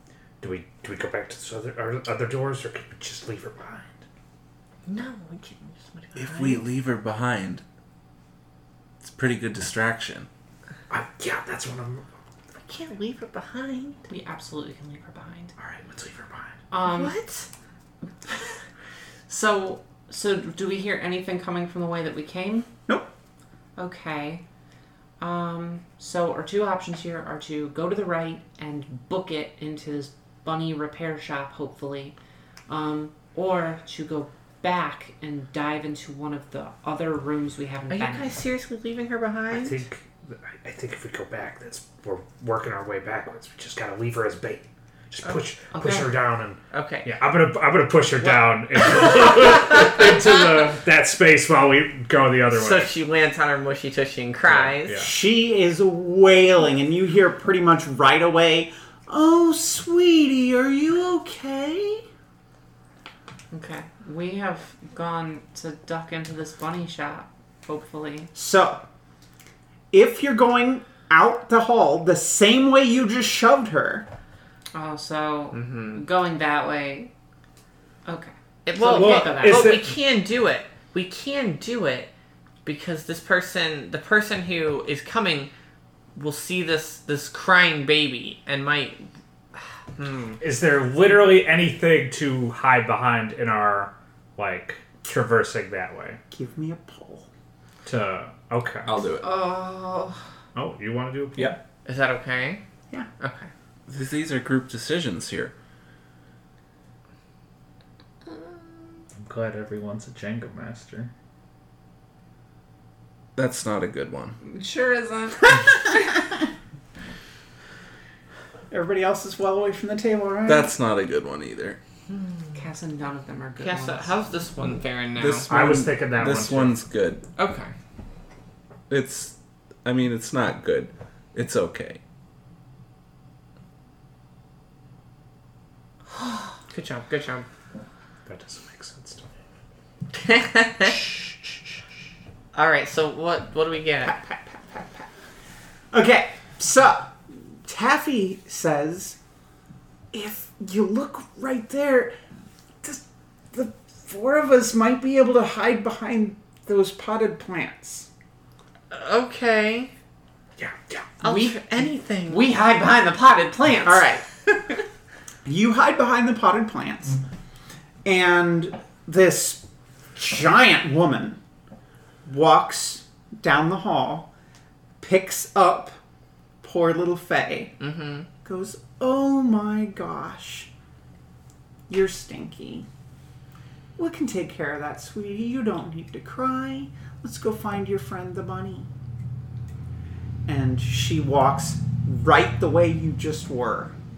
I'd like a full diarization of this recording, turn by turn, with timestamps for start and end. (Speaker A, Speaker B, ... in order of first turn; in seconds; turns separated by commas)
Speaker A: 0.4-4.0, Speaker B: 4.9-6.7, Speaker C: 6.2-7.6, Speaker C: 9.0-10.3, Speaker A: 10.9-12.1, Speaker B: 12.7-14.0, Speaker D: 14.1-15.5, Speaker A: 15.6-16.6, Speaker D: 16.7-17.2, Speaker B: 16.9-17.5, Speaker D: 19.3-22.7, Speaker D: 23.8-24.4, Speaker D: 25.2-32.1, Speaker D: 32.7-38.4, Speaker B: 37.9-39.8, Speaker A: 39.5-52.9, Speaker D: 45.7-46.1, Speaker B: 46.7-47.1, Speaker B: 52.5-55.1, Speaker A: 54.5-55.1, Speaker E: 55.0-62.0, Speaker D: 63.5-68.3, Speaker E: 68.3-68.8, Speaker E: 69.9-74.1, Speaker D: 74.7-77.1, Speaker B: 75.5-76.0, Speaker D: 78.1-79.7, Speaker B: 78.7-82.1, Speaker A: 78.8-80.0, Speaker B: 82.7-85.5, Speaker B: 86.2-89.1, Speaker B: 90.0-90.4, Speaker A: 90.4-96.2, Speaker E: 96.3-97.3, Speaker A: 97.8-99.0, Speaker C: 98.9-99.3, Speaker D: 99.2-100.2, Speaker A: 100.5-101.6, Speaker B: 101.9-102.6, Speaker B: 103.2-103.5, Speaker C: 103.9-105.5, Speaker A: 109.2-111.1, Speaker C: 113.4-114.4, Speaker D: 114.4-116.2, Speaker E: 118.7-120.7, Speaker C: 120.5-121.8, Speaker B: 122.1-122.5, Speaker D: 122.5-124.1, Speaker B: 123.6-125.5, Speaker C: 125.2-127.2, Speaker A: 125.5-126.8, Speaker B: 127.4-127.7, Speaker C: 128.9-132.0, Speaker B: 136.7-137.5, Speaker A: 138.3-139.3, Speaker B: 140.1-141.1, Speaker B: 142.5-144.2, Speaker E: 144.0-145.1, Speaker E: 145.9-149.2, Speaker E: 150.1-152.1, Speaker E: 152.8-158.1, Speaker B: 158.9-159.9, Speaker A: 160.6-161.1, Speaker B: 161.2-162.5, Speaker D: 161.2-164.1, Speaker E: 163.8-164.7, Speaker E: 165.4-167.2, Speaker E: 168.1-169.6, Speaker E: 170.2-171.4, Speaker E: 172.2-174.3, Speaker E: 175.0-176.0, Speaker E: 176.6-177.8, Speaker B: 177.8-178.3, Speaker E: 178.4-180.7, Speaker E: 181.9-182.9, Speaker E: 184.0-188.9, Speaker E: 190.5-194.0